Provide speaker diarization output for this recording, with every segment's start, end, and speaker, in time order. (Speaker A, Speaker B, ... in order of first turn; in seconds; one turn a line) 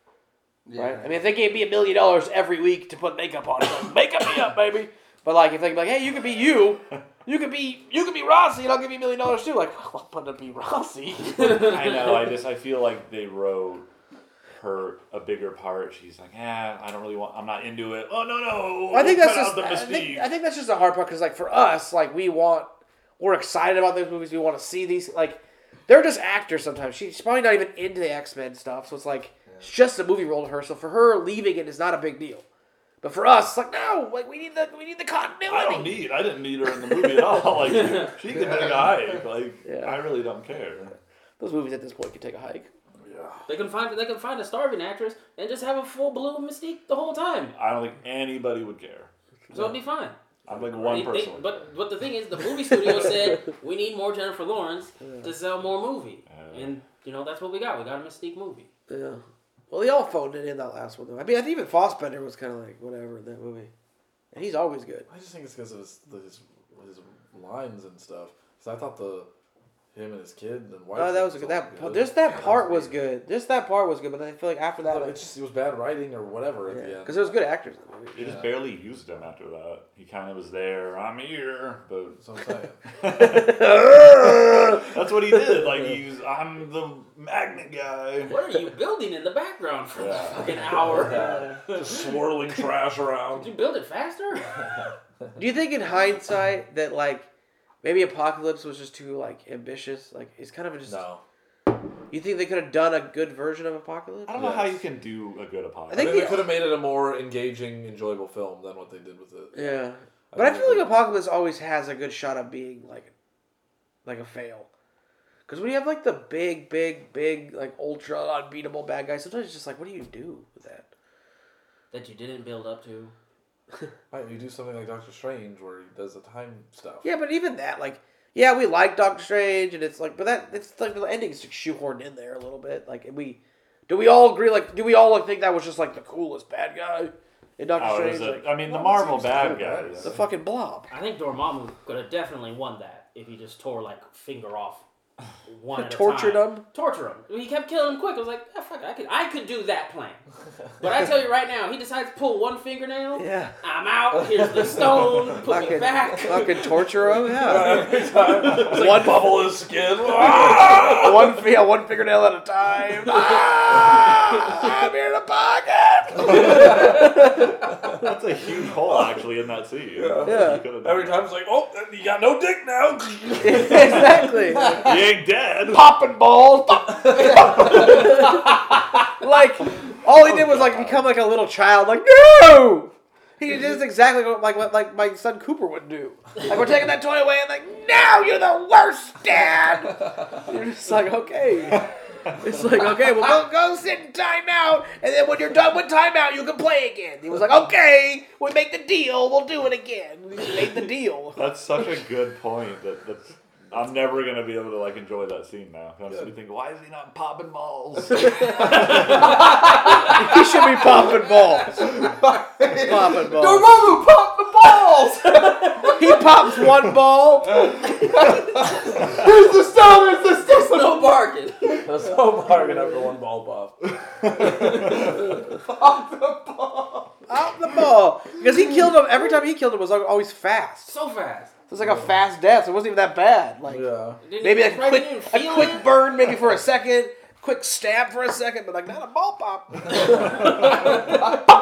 Speaker A: 0.6-1.1
Speaker B: 0.8-11.9
Speaker C: 11.4-13.8
Speaker C: 14.6-20.3
Speaker B: 18.9-32.4
Speaker B: 33.0-36.0
Speaker C: 35.5-41.0
Speaker D: 37.8-38.1
Speaker A: 38.3-39.0
Speaker B: 39.6-40.1
Speaker B: 41.4-42.7
Speaker E: 43.0-43.5
Speaker D: 43.5-47.5
Speaker C: 47.5-49.1
Speaker D: 49.5-50.1
Speaker C: 50.5-51.6
Speaker E: 50.5-51.0
Speaker D: 50.8-58.7
Speaker B: 55.0-55.3
Speaker C: 56.3-56.7
Speaker B: 58.9-63.7
Speaker B: 64.3-65.1
Speaker E: 65.1-69.3
Speaker E: 69.9-73.0
Speaker B: 70.9-75.3
Speaker E: 74.8-77.3
Speaker B: 76.7-78.4
Speaker C: 78.1-82.2
Speaker E: 82.2-82.8
Speaker C: 83.0-88.4
Speaker B: 83.2-84.5
Speaker D: 88.2-92.1
Speaker C: 90.0-90.7
Speaker E: 90.7-93.5
Speaker B: 91.1-91.5
Speaker D: 93.3-94.7
Speaker B: 95.3-97.3
Speaker B: 97.8-101.0
Speaker E: 100.8-101.2
Speaker B: 102.1-104.5
Speaker C: 104.3-106.4
Speaker E: 104.3-104.8
Speaker B: 105.9-106.6
Speaker E: 105.9-110.9
Speaker B: 109.5-113.1
Speaker B: 114.0-114.7
Speaker B: 115.5-120.9
Speaker D: 121.9-123.1
Speaker E: 124.1-127.0
Speaker B: 127.0-138.6
Speaker C: 137.8-140.2
Speaker A: 138.7-139.9
Speaker E: 139.5-140.1
Speaker B: 140.0-140.9
Speaker D: 140.9-144.8
Speaker D: 145.5-150.2
Speaker B: 145.7-146.6
Speaker D: 150.8-156.8
Speaker B: 153.2-153.5
Speaker E: 154.2-155.2
Speaker B: 155.4-157.9
Speaker E: 157.0-161.4
Speaker D: 157.5-158.6
Speaker B: 158.5-159.5
Speaker B: 160.0-167.5
Speaker E: 166.2-167.0
Speaker C: 166.5-167.0
Speaker C: 167.8-171.3
Speaker E: 169.9-174.4
Speaker B: 170.2-170.6
Speaker B: 173.4-174.9
Speaker C: 174.7-175.8
Speaker B: 175.7-178.5
Speaker A: 177.1-178.1
Speaker B: 179.2-201.4
Speaker C: 180.3-181.1
Speaker C: 201.3-209.2
Speaker B: 208.8-209.3
Speaker B: 210.0-212.0
Speaker A: 211.7-216.3
Speaker B: 212.8-213.8
Speaker D: 215.4-215.9
Speaker B: 215.9-217.7
Speaker A: 217.5-221.3
Speaker D: 220.2-221.9
Speaker E: 221.8-223.9
Speaker A: 224.4-227.2
Speaker B: 227.3-230.9
Speaker D: 230.9-231.5
Speaker B: 231.7-233.9
Speaker E: 231.8-232.1
Speaker E: 233.7-234.2
Speaker D: 234.2-235.9
Speaker B: 234.4-241.2